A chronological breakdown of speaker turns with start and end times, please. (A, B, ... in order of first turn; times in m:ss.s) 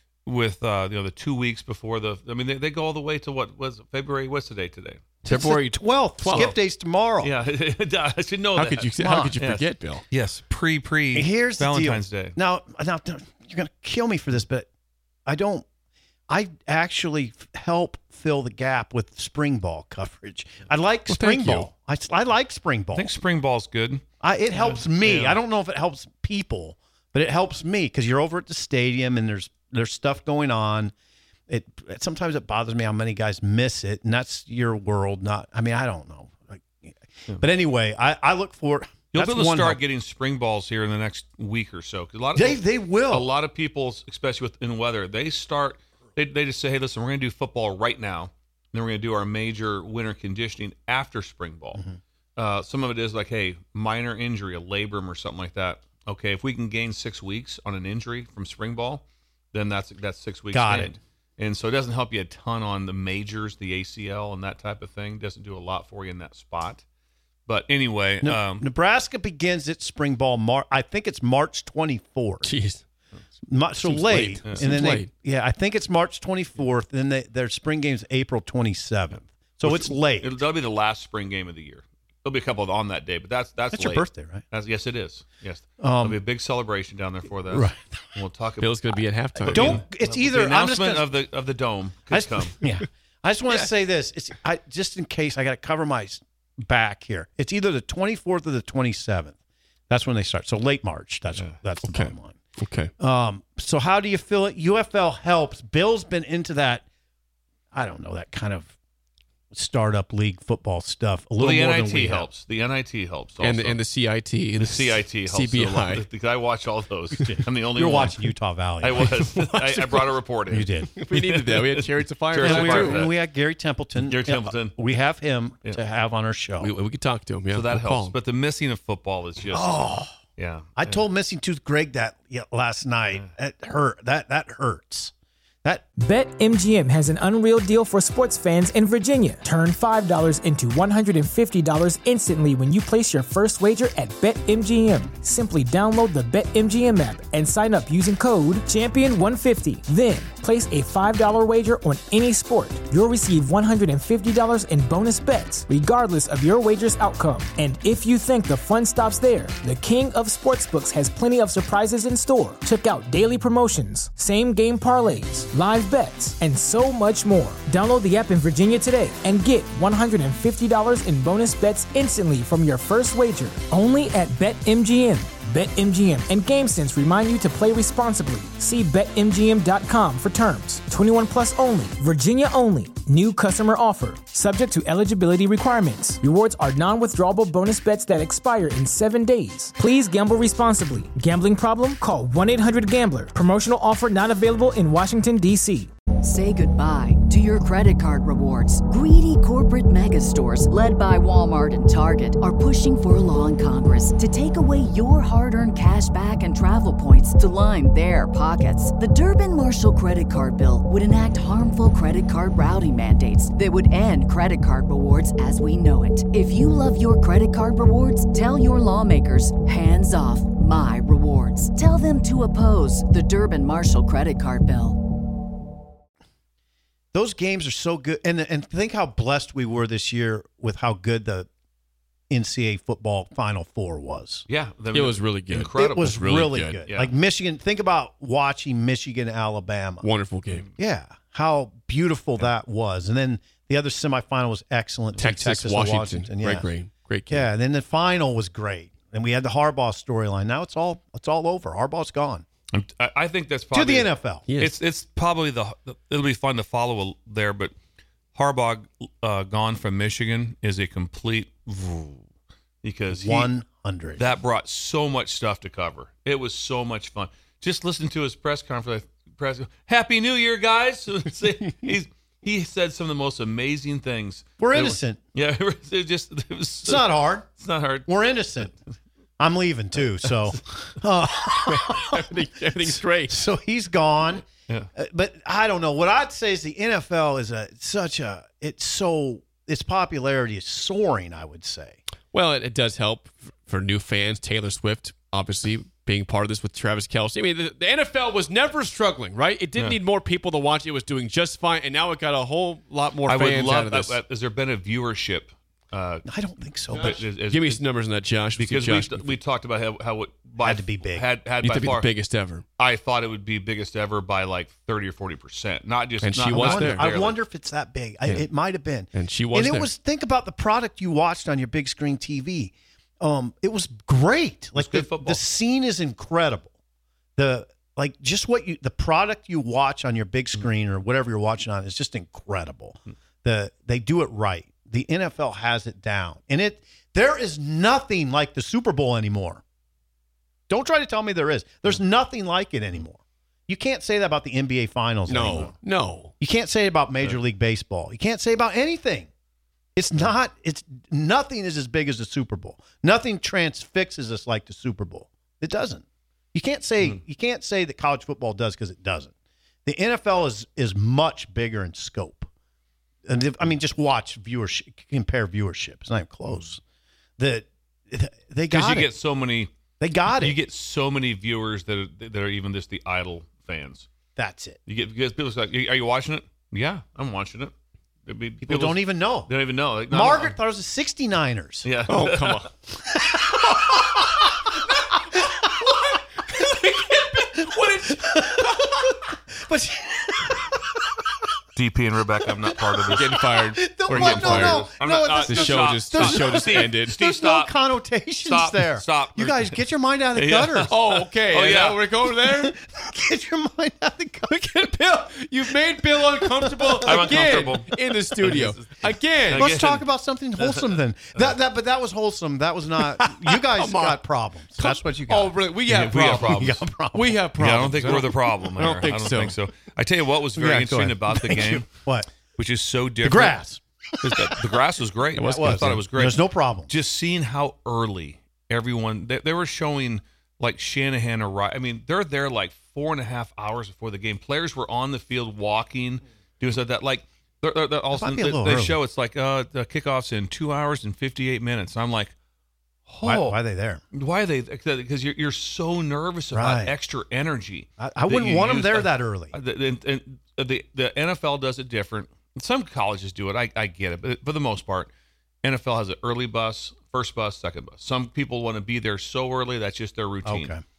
0:00.3-0:05.1 A
0:05.2-0:07.3 B
0:05.3-0:06.5 C
0:06.3-0:06.6 A
0:07.2-0:12.4 A
0:08.6-0:10.0 C
0:09.0-0:09.4 B
0:11.1-0:14.7 B
0:15.3-0:15.7 B
0:16.3-0:23.1 B
0:21.1-0:21.7 C
0:22.9-0:24.0 A
0:24.2-0:30.9 B
0:24.6-0:25.4 A
0:31.5-0:39.8 B
0:39.1-0:51.8 A
0:42.4-0:43.3 B
0:52.4-1:06.8 A
1:00.5-1:00.9 B
1:07.5-1:08.7 A
1:08.2-1:12.5 B
1:12.4-1:12.8 C
1:13.5-1:20.4 B
1:13.8-1:15.1 C
1:14.4-1:14.8 A
1:19.6-1:32.6 A
1:23.7-1:24.4 B
1:25.8-1:26.2 B
1:27.5-1:27.8 B
1:28.6-1:29.8 C
1:29.5-1:31.1 B
1:32.1-1:39.4 B
1:39.9-1:42.4 B
1:41.9-1:42.9 C
1:43.0-1:46.8 B
1:47.7-1:48.7 B
1:49.5-1:52.3 B
1:51.4-1:53.8 A
1:53.4-1:56.0 C
1:54.6-1:58.2 A
1:57.3-2:00.9 B
1:58.8-2:03.1 A
2:01.0-2:03.1 C
2:02.4-2:06.7 B
2:04.0-2:04.8 A
2:06.6-2:08.2 C
2:07.5-2:09.8 A
2:09.5-2:10.2 B
2:10.4-2:11.0 A
2:10.8-2:15.1 B
2:16.0-3:15.9 D
3:16.2-3:45.0 E
3:47.1-3:51.5 B
3:52.3-3:54.5 B
3:54.5-3:57.1 A
3:54.9-3:56.8 C
3:55.8-4:00.1 B
4:00.0-4:00.7 C
4:00.8-4:06.7 B
4:05.2-4:07.5 C
4:07.3-4:12.4 B
4:12.7-4:17.8 A
4:13.7-4:14.4 B
4:14.5-4:14.8 C
4:18.4-4:22.2 A
4:22.8-4:23.5 A
4:23.1-4:24.3 B
4:24.2-4:38.1 A
4:34.6-4:35.2 B
4:36.8-4:37.5 B
4:38.1-4:38.7 B
4:39.4-4:52.0 B
4:41.7-4:43.4 C
4:52.3-5:04.2 C
5:03.3-5:06.2 A
5:06.2-5:07.2 B
5:06.9-5:07.8 A
5:06.9-5:09.3 C
5:08.6-5:12.1 A
5:10.6-5:11.3 B
5:11.6-5:12.6 C
5:12.8-5:17.4 A
5:16.2-5:17.0 C
5:16.5-5:26.7 B
5:19.1-5:19.9 C
5:24.8-5:25.4 A
5:27.4-5:39.6 B
5:40.7-5:45.7 B
5:45.3-5:46.3 C
5:46.4-5:49.3 B
5:50.0-5:59.3 B
5:59.8-6:02.5 B
6:03.3-6:06.8 B
6:07.4-6:09.1 B
6:08.7-6:09.7 A
6:10.0-6:10.6 B
6:10.3-6:14.1 A
6:14.4-6:14.8 B
6:14.9-6:17.7 A
6:18.3-6:20.5 A
6:18.6-6:19.5 B
6:20.1-6:21.9 B
6:21.8-6:22.7 A
6:22.1-6:22.7 C
6:23.1-6:24.7 B
6:25.4-6:31.4 B
6:31.8-6:33.4 A
6:32.6-6:40.9 B
6:33.1-6:37.2 C
6:34.1-6:37.7 A
6:38.4-6:39.8 A
6:40.4-6:42.0 A
6:40.9-6:42.8 C
6:42.4-6:44.8 B
6:44.5-6:49.7 C
6:46.1-6:47.6 B
6:47.0-6:50.0 A
6:49.5-6:57.4 B
6:50.6-6:50.9 A
6:53.1-6:54.2 C
6:54.8-6:59.6 C
6:55.9-6:56.8 A
6:57.6-7:01.9 A
7:00.6-7:02.3 B
7:02.6-7:03.6 A
7:03.2-7:04.5 B
7:04.2-7:22.3 A
7:05.4-7:06.0 C
7:05.4-7:06.9 B
7:18.1-7:19.0 B
7:23.1-7:23.6 A
7:23.2-7:24.0 B
7:24.1-7:35.1 A
7:26.5-7:26.9 B
7:28.0-7:29.6 B
7:35.6-7:40.7 A
7:40.4-7:40.8 B